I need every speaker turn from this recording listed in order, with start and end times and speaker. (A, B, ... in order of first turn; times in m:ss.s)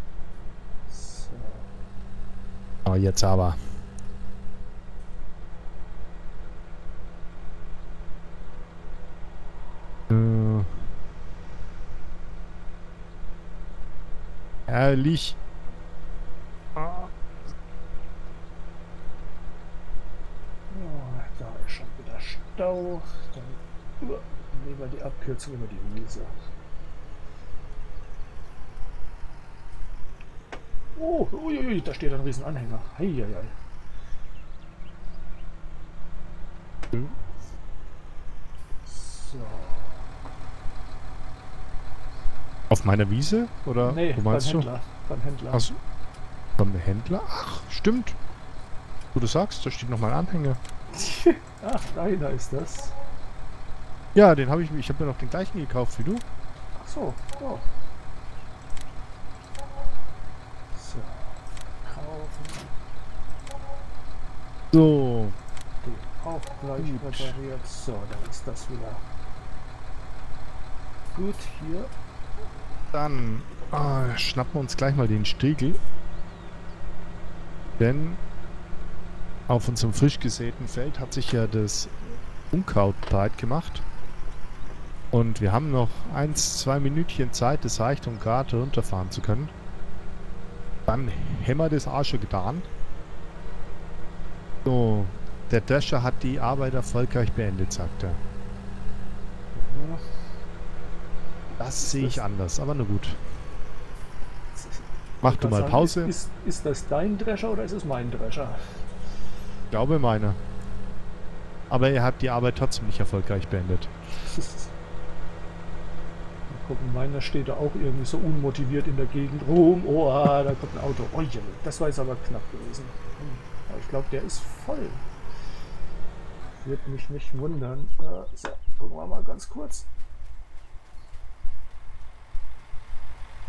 0:00.9-0:01.7 A
0:02.9-0:03.6 B
0:10.1-0:10.8 B
0:14.7-0:15.4 B
0:16.8-0:17.1 B
0:20.7-0:26.3 A
0:31.0-0:33.5 A
0:38.9-0:40.0 A
0:42.7-0:44.7 B
0:43.8-0:45.7 A
0:45.5-0:45.8 B
0:46.6-0:48.2 B
0:49.1-0:50.6 B
0:50.9-0:52.9 A
0:54.2-0:56.2 B
0:56.8-0:57.7 A
1:00.7-1:02.7 A
1:04.7-1:05.4 B
1:05.8-1:09.0 A
1:06.8-1:07.4 B
1:11.2-1:11.9 A
1:12.9-1:15.8 B
1:17.8-1:18.2 B
1:19.5-1:21.9 B
1:22.5-1:23.8 B
1:25.1-1:29.5 B
1:30.9-1:32.7 B
1:34.6-1:38.2 B
1:39.5-1:40.0 A
1:41.6-1:43.2 B
1:41.8-1:42.2 A
1:44.6-1:48.8 A
1:45.2-1:46.1 B
1:49.7-1:50.4 B
1:51.7-1:53.9 B
1:54.2-1:54.7 A
1:56.5-2:05.0 A
2:06.6-2:09.9 A